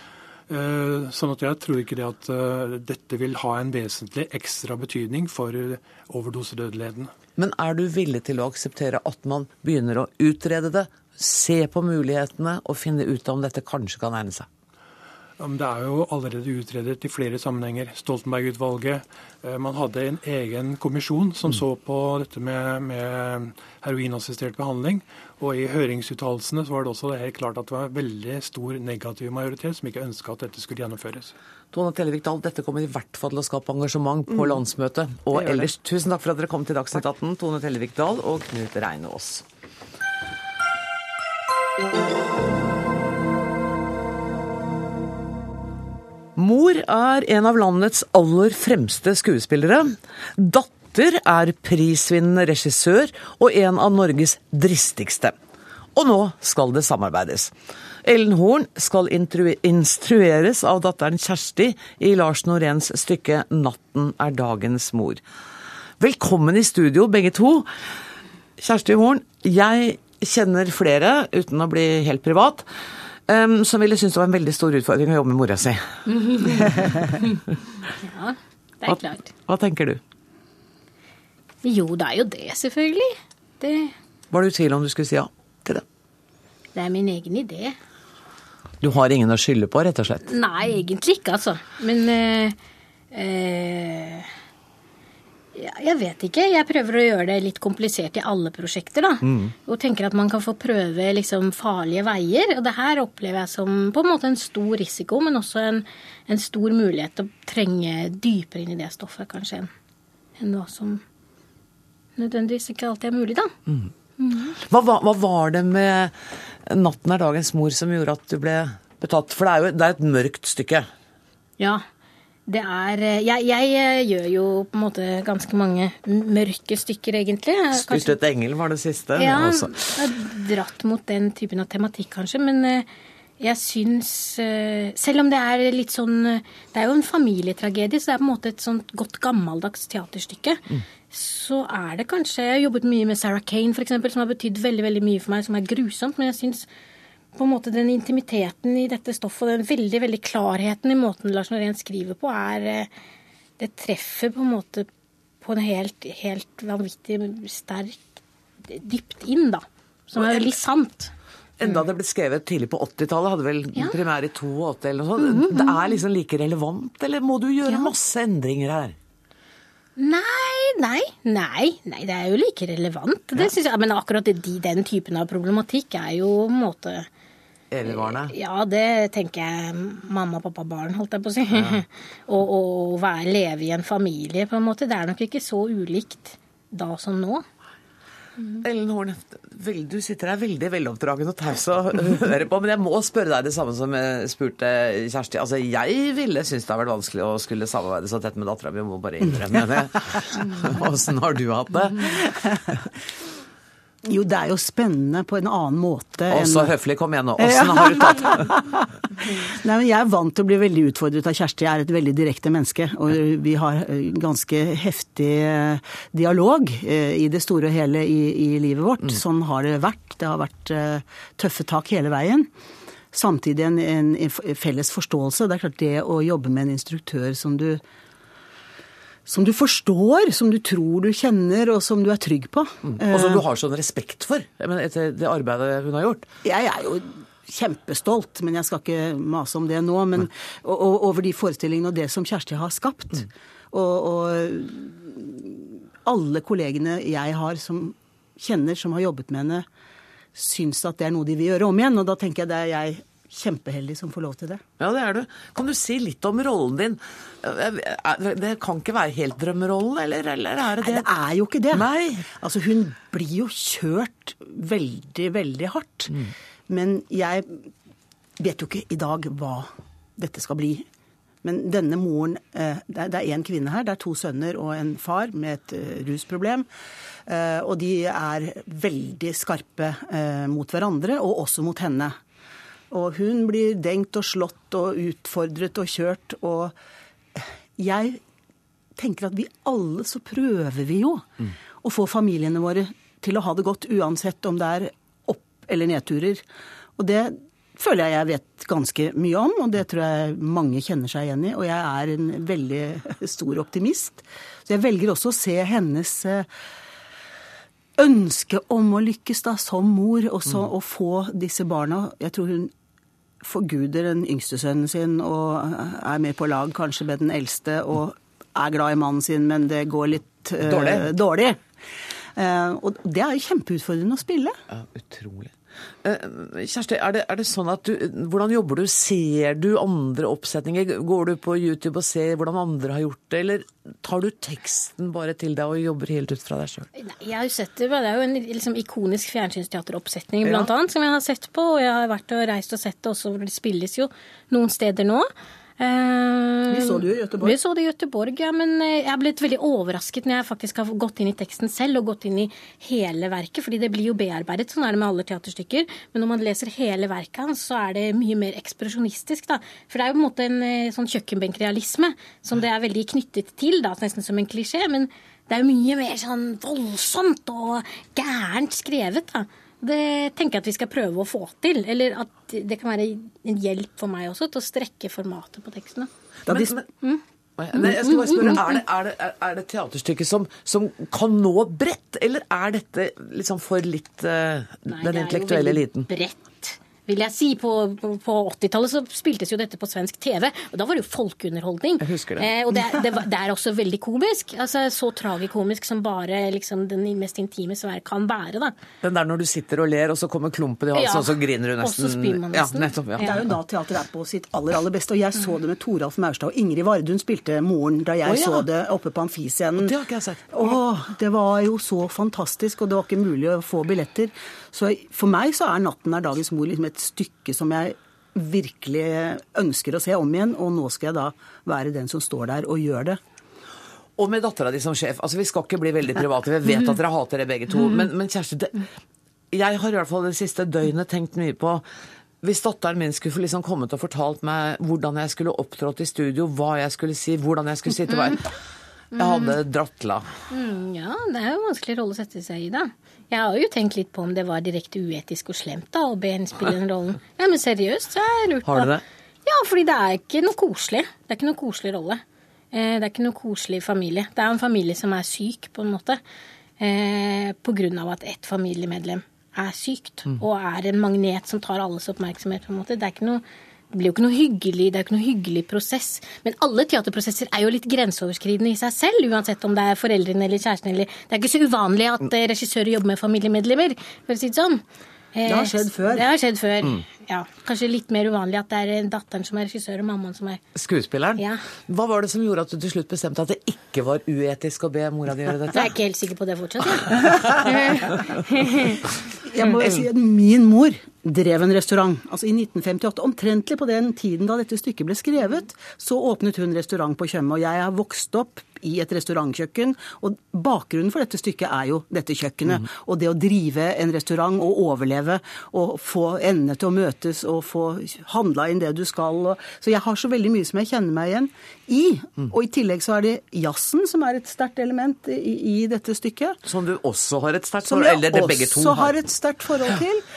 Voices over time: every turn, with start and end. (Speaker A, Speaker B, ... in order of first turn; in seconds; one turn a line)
Speaker A: 0.5-7.1
Speaker B: 7.4-14.5
Speaker A: 15.4-31.3
Speaker B: 31.7-39.4
Speaker B: 46.4-55.3
Speaker B: 56.0-65.2
Speaker B: 66.0-67.7
Speaker B: 68.6-72.7
Speaker B: 73.3-76.5
Speaker C: 76.1-77.2
Speaker C: 78.0-79.3
Speaker B: 78.8-80.0
Speaker C: 81.6-83.9
Speaker B: 84.3-85.8
Speaker C: 86.7-87.8
Speaker B: 88.8-90.3
Speaker C: 90.3-92.5
Speaker C: 93.1-94.3
Speaker C: 95.5-109.7
Speaker B: 99.2-99.5
Speaker C: 110.4-111.0
Speaker C: 112.2-113.5
Speaker C: 114.2-114.5
Speaker B: 114.5-116.1
Speaker B: 116.7-120.9
Speaker C: 121.6-121.8
Speaker C: 122.5-128.2
Speaker B: 127.7-130.0
Speaker C: 129.2-132.9
Speaker C: 133.4-146.7
Speaker C: 147.3-152.9
Speaker C: 153.6-154.9
Speaker C: 155.4-158.1
Speaker C: 158.7-161.1
Speaker B: 160.2-160.5
Speaker B: 161.6-168.9
Speaker C: 165.2-165.8
Speaker C: 167.7-167.9
Speaker C: 170.0-177.1
Speaker B: 177.7-178.3
Speaker C: 177.8-187.4
Speaker B: 181.5-181.8
Speaker B: 188.6-202.1
Speaker D: 204.1-206.7
Speaker B: 206.3-208.4
Speaker D: 207.4-222.5
Speaker D: 223.1-227.8
Speaker D: 229.3-233.4
Speaker B: 232.8-236.2
Speaker D: 236.4-249.7
Speaker D: 250.3-254.6
Speaker B: 254.8-261.1
Speaker D: 260.8-267.7
Speaker B: 261.7-262.2
Speaker D: 268.4-270.9
Speaker D: 271.4-276.6
Speaker D: 277.3-282.1
Speaker D: 282.9-286.7
Speaker D: 287.4-288.2
Speaker D: 289.0-291.3
Speaker D: 291.8-296.4
Speaker D: 297.0-306.5
Speaker D: 308.0-312.7
Speaker D: 313.4-321.6
Speaker B: 320.6-321.1
Speaker D: 322.4-324.6
Speaker B: 324.7-336.9
Speaker C: 337.0-376.1
Speaker B: 340.4-340.7
Speaker D: 346.7-347.6
Speaker B: 376.5-376.9
Speaker B: 377.6-386.1
Speaker C: 377.7-378.8
Speaker C: 384.9-398.8
Speaker B: 392.0-392.5
Speaker B: 399.0-403.4
Speaker C: 400.9-403.4
Speaker D: 403.2-409.9
Speaker B: 408.2-408.6
Speaker B: 409.8-410.5
Speaker D: 410.5-423.2
Speaker B: 424.2-428.9
Speaker B: 429.5-431.8
Speaker B: 432.4-438.5
Speaker C: 439.1-439.6
Speaker B: 439.1-440.3
Speaker C: 440.5-456.2
Speaker B: 448.6-449.0
Speaker C: 456.8-480.6
Speaker D: 475.4-476.3
Speaker B: 480.7-485.9
Speaker C: 481.4-481.6
Speaker C: 485.7-488.1
Speaker B: 487.4-488.0
Speaker D: 489.4-516.6
Speaker B: 516.6-519.1
Speaker D: 517.8-520.2